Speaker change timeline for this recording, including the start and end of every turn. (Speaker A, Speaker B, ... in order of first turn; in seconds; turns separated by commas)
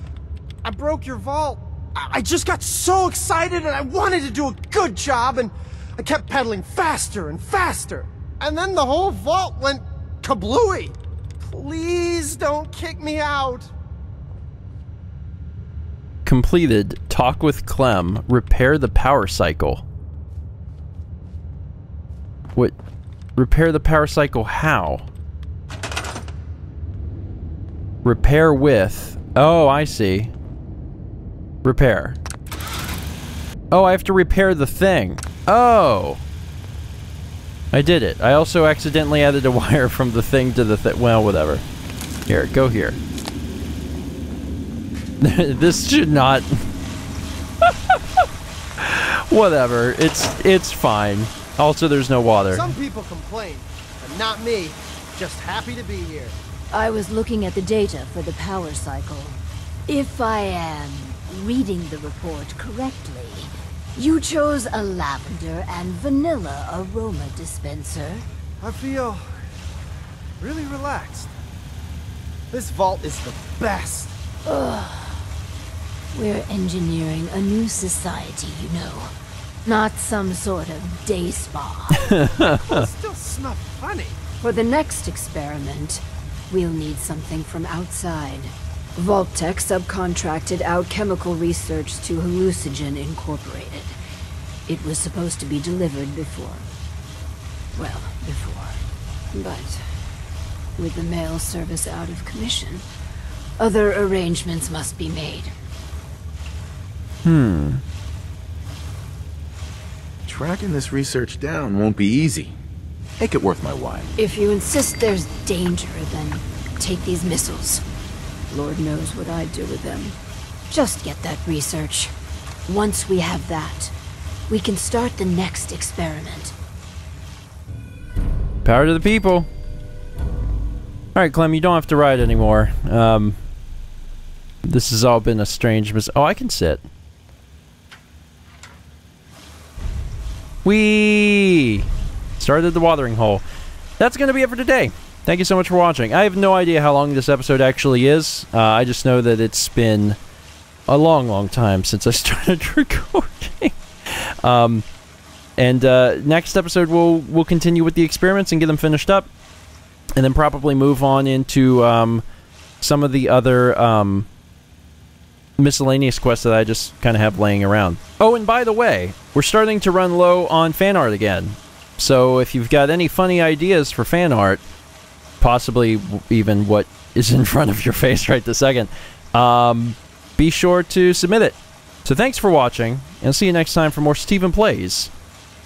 Speaker A: 0.6-13.7, Speaker B: 16.3-19.8, Speaker B: 23.4-25.1, Speaker B: 28.0-30.3, Speaker B: 31.6-32.2, Speaker B: 33.7-36.2, Speaker B: 37.7-41.6, Speaker B: 42.3-43.0, Speaker B: 45.2-46.6, Speaker B: 47.6-48.0, Speaker B: 48.8-52.7, Speaker A: 52.5-56.4, Speaker C: 56.7-68.2, Speaker A: 68.6-69.3, Speaker A: 70.4-71.3, Speaker A: 72.5-74.2, Speaker C: 74.5-75.2, Speaker C: 76.1-79.1, Speaker C: 79.6-82.1, Speaker B: 82.0-82.9, Speaker A: 82.4-84.2, Speaker C: 84.4-94.0, Speaker C: 94.7-96.7, Speaker C: 97.7-98.8, Speaker C: 99.3-99.8, Speaker C: 100.8-102.8, Speaker C: 103.6-105.5, Speaker B: 107.2-107.8, Speaker D: 110.3-112.6, Speaker D: 113.2-114.1, Speaker C: 114.2-117.8, Speaker C: 118.5-120.2, Speaker C: 120.7-122.1, Speaker C: 122.7-123.9, Speaker C: 124.5-126.5, Speaker B: 128.6-129.5, Speaker B: 131.1-133.4, Speaker B: 134.6-136.8, Speaker B: 140.6-143.4, Speaker B: 144.0-150.2, Speaker B: 150.9-154.8, Speaker B: 155.6-159.3, Speaker B: 160.2-162.2, Speaker B: 162.8-164.3, Speaker B: 165.6-174.6, Speaker B: 175.4-185.1